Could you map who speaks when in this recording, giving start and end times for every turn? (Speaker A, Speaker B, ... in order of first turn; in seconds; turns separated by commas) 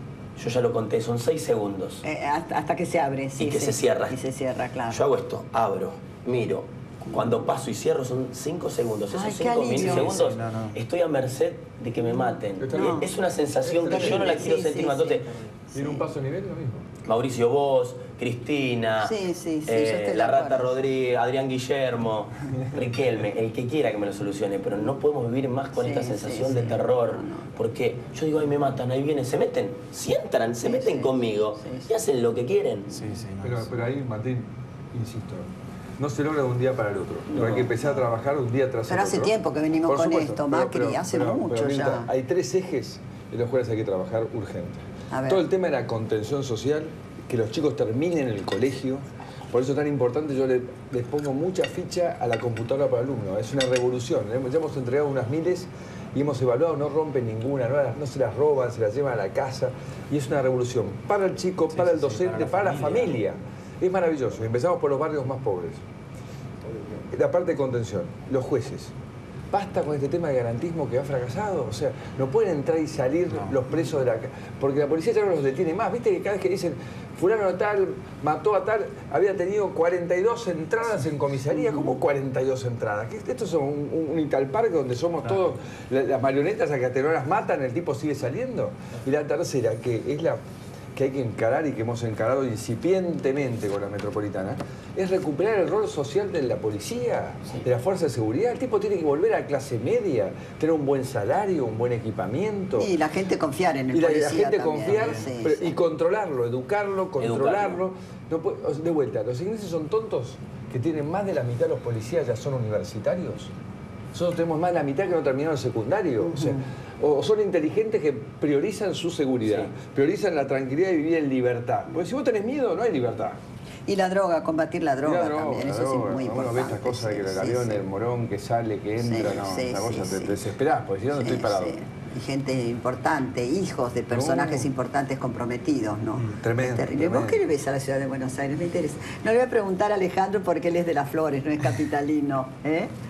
Speaker A: 0.4-2.0, Speaker B: 2.0-5.0, Speaker A: 3.4-4.2, Speaker A: 4.9-15.4, Speaker B: 9.1-10.2, Speaker C: 9.7-10.8, Speaker D: 12.6-13.1, Speaker B: 12.7-13.1, Speaker D: 13.6-14.4, Speaker B: 13.9-16.0, Speaker D: 15.7-16.9, Speaker A: 17.1-19.1, Speaker B: 19.0-20.7, Speaker A: 19.7-33.0, Speaker B: 25.8-27.5, Speaker B: 30.6-31.9, Speaker C: 32.9-33.7, Speaker D: 33.4-65.8, Speaker A: 37.4-37.6, Speaker B: 38.9-42.1, Speaker B: 45.1-45.4, Speaker C: 61.7-63.2, Speaker D: 67.1-68.9, Speaker D: 69.5-90.4, Speaker B: 81.5-82.0, Speaker D: 91.0-102.9, Speaker B: 102.8-105.7, Speaker D: 103.9-113.5, Speaker A: 107.2-107.8, Speaker D: 114.1-123.4, Speaker B: 116.2-116.6, Speaker A: 119.5-119.7, Speaker B: 123.9-127.8, Speaker D: 125.0-131.8, Speaker B: 129.0-130.4, Speaker B: 131.1-142.9, Speaker D: 134.1-134.7, Speaker D: 136.4-137.4